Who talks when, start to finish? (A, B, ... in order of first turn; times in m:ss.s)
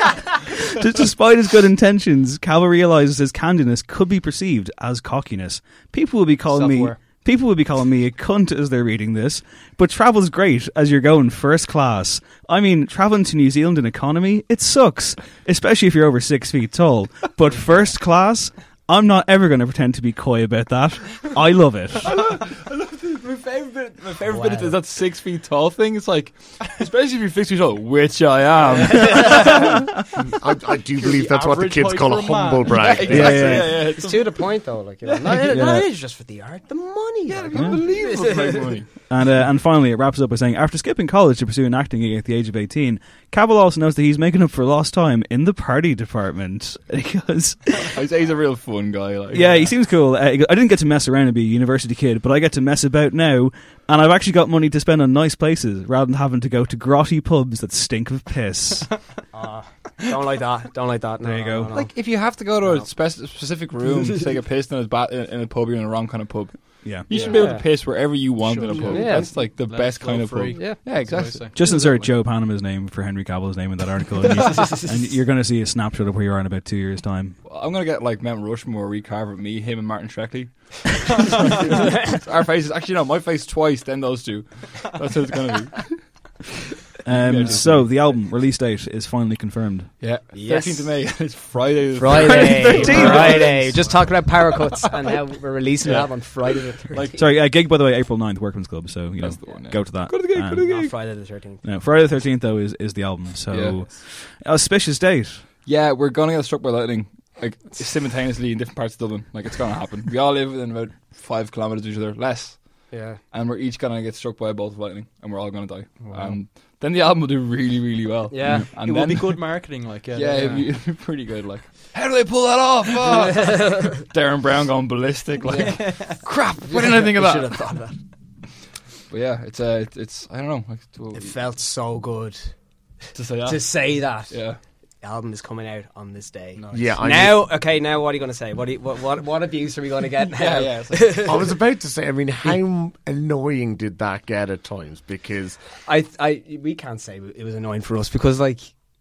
0:00.5-0:22.1 A
0:06.5-0:07.0 B
0:22.0-0:29.9 C
0:24.2-0:24.8 D
0:28.7-0:29.6 D
0:30.2-0:33.5 B
0:30.4-0:33.6 E
0:32.8-0:34.5 C
0:33.1-0:33.8 A
0:33.7-0:38.8 D
0:35.0-0:35.8 C
0:35.5-0:35.9 A
0:37.3-0:38.9 C
0:37.5-0:37.9 A
0:39.1-0:47.9 A
0:47.8-0:49.7 C
0:49.3-0:59.1 A
0:59.3-1:02.9 D
1:01.2-1:01.7 A
1:01.7-1:12.1 C
1:06.8-1:07.2 A
1:07.1-1:09.4 D
1:07.1-1:07.5 B
1:08.4-1:11.9 B
1:10.5-1:10.9 D
1:11.5-1:17.4 A
1:14.4-1:14.9 D
1:17.4-1:26.3 C
1:27.0-1:27.9 C
1:27.0-1:30.0 A
1:30.0-1:35.2 C
1:30.3-1:31.2 D
1:31.9-1:37.2 D
1:32.2-1:33.6 A
1:35.8-1:37.2 C
1:37.2-1:40.8 A
1:39.2-1:41.0 C
1:40.6-1:41.6 D
1:41.6-1:45.5 A
1:43.5-1:43.9 C
1:45.6-1:59.4 C
1:52.9-1:53.2 D
1:56.0-1:56.4 B
1:58.3-1:58.7 D
1:58.7-2:00.7 B
2:00.1-2:07.8 C
2:00.3-2:00.7 D
2:03.1-2:04.0 D
2:05.4-2:08.0 D
2:05.5-2:06.2 B
2:09.1-2:11.4 C
2:11.1-2:12.6 D
2:13.2-2:14.6 C
2:13.4-2:14.5 D
2:15.0-2:21.4 D
2:16.6-2:17.1 C
2:16.7-2:17.4 E
2:20.2-2:21.4 C
2:21.3-2:25.6 E
2:25.9-2:28.8 D